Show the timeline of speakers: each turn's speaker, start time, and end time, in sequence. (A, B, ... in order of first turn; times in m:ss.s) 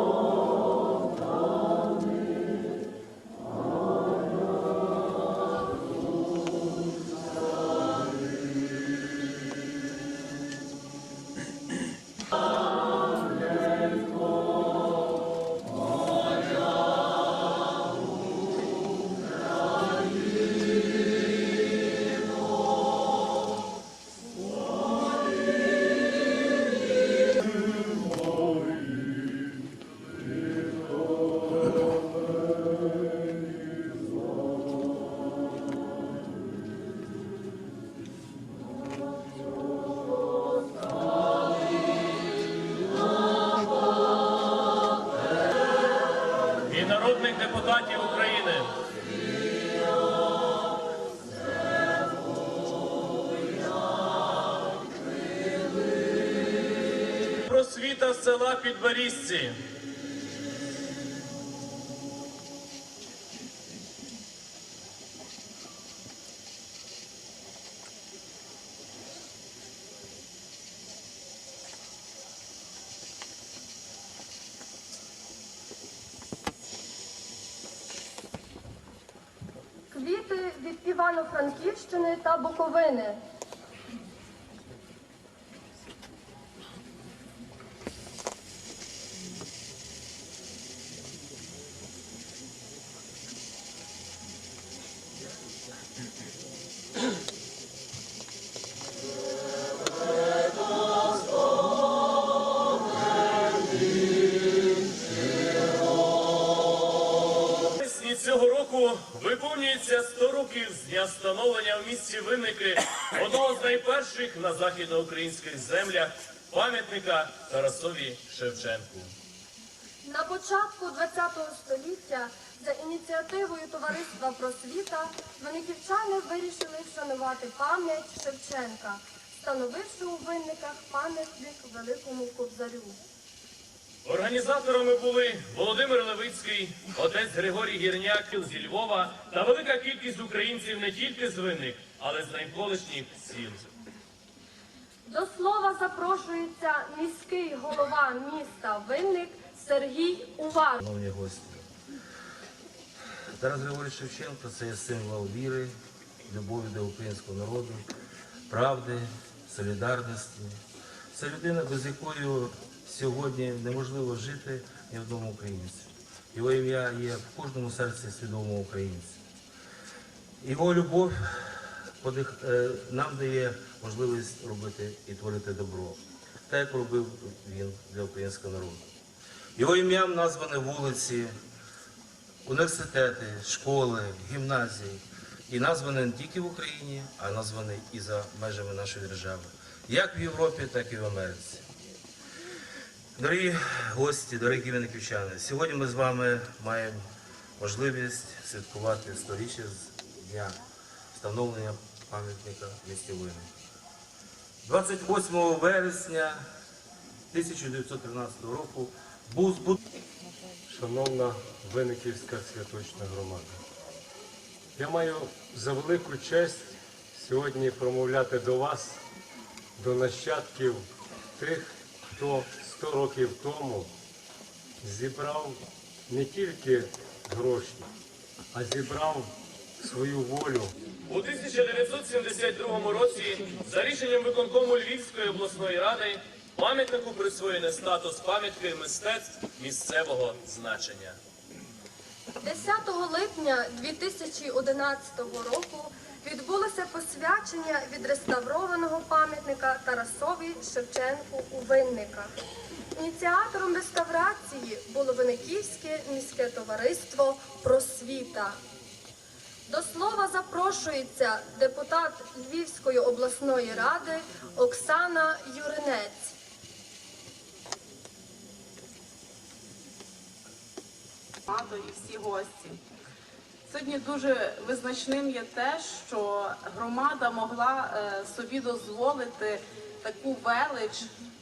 0:46.7-0:48.8 A
0:57.5-0:59.6 A
1:19.9-1:23.2 B
1:47.8-1:59.1 A
2:00.0-2:13.0 B
2:14.0-2:23.7 A
2:25.1-2:30.8 B
2:30.8-2:31.6 C
2:33.4-2:35.7 C
2:36.3-2:37.8 C
2:38.5-2:40.6 C
2:41.1-2:49.2 C
2:50.4-2:58.8 C
2:59.6-3:01.4 C
3:02.4-3:11.6 C
3:13.2-3:17.0 C
3:17.6-3:20.6 C
3:21.1-3:23.5 C
3:24.6-3:26.4 C
3:27.3-3:29.8 C
3:30.7-3:33.5 D
3:34.8-3:39.0 D
3:39.8-3:40.8 D
3:41.4-3:43.9 D
3:44.8-3:45.6 D
3:46.1-3:47.8 D
3:48.5-3:49.3 D
3:49.8-3:50.7 D
3:51.1-4:01.2 A
4:02.4-4:12.3 B
4:13.0-4:18.6 B
4:19.7-4:26.4 B
4:31.5-4:32.8 E
4:33.7-4:41.1 E